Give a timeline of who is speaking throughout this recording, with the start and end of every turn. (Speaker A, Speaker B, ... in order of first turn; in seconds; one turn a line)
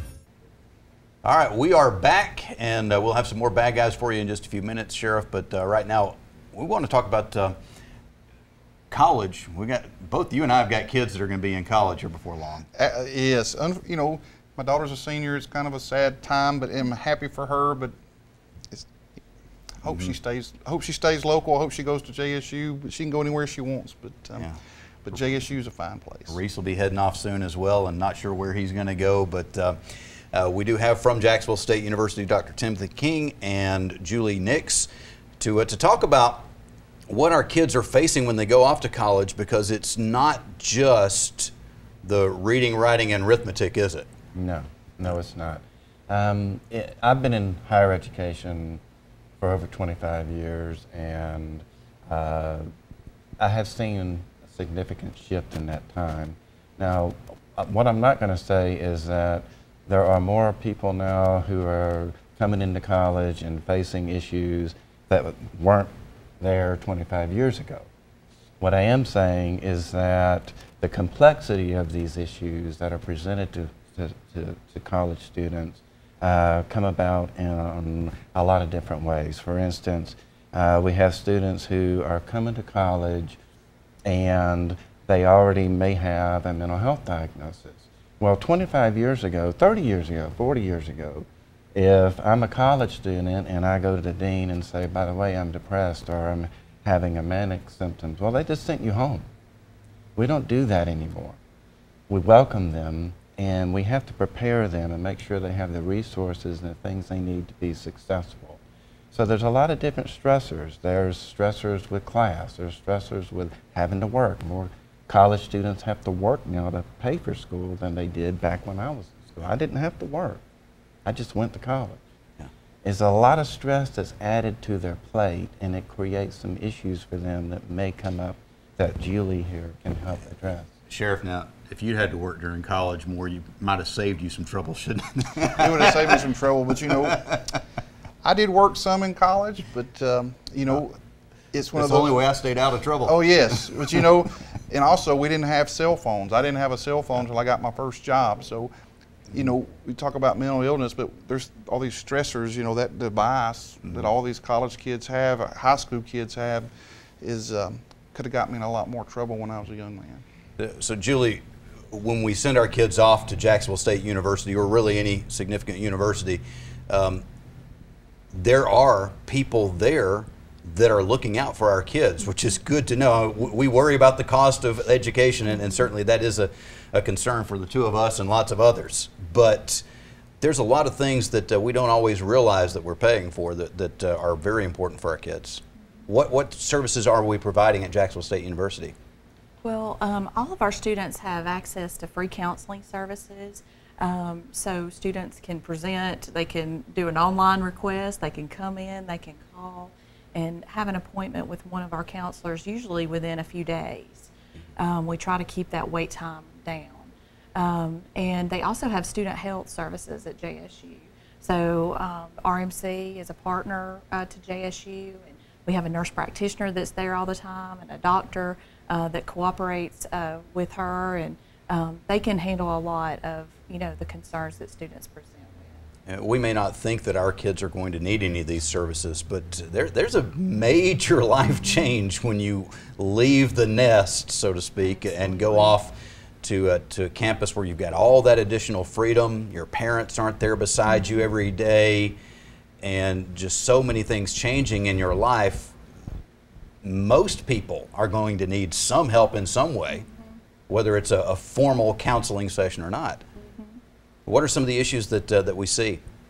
Speaker A: 1.2-7.6
Speaker A: 8.9-12.7
Speaker B: 12.8-17.9
Speaker B: 19.8-24.5
Speaker B: 25.1-26.4
Speaker A: 26.3-29.8
Speaker A: 30.3-36.5
Speaker A: 37.1-41.5
Speaker A: 42.0-44.1
Speaker C: 44.4-48.8
Speaker C: 49.4-52.7
Speaker C: 53.4-67.9
Speaker C: 68.6-83.4
Speaker C: 84.1-99.2
Speaker C: 100.2-101.4
Speaker C: 102.1-108.6
Speaker C: 109.1-120.4
Speaker C: 121.0-122.0
Speaker C: 122.8-130.7
Speaker A: 130.9-136.3
Speaker B: 135.5-137.2
Speaker A: 136.9-137.6
Speaker B: 138.2-141.0
Speaker B: 141.5-142.2
Speaker A: 141.7-144.0
Speaker B: 143.1-148.7
Speaker B: 149.3-156.7
Speaker B: 157.2-160.2
Speaker A: 160.6-167.2
Speaker A: 168.3-179.8
Speaker A: 180.4-188.9
Speaker D: 189.6-225.8
Speaker A: 226.1-242.2
Speaker A: 242.8-245.7
Speaker A: 246.8-250.1
Speaker A: 250.7-253.2
Speaker D: 253.4-253.8
Speaker A: 254.3-256.0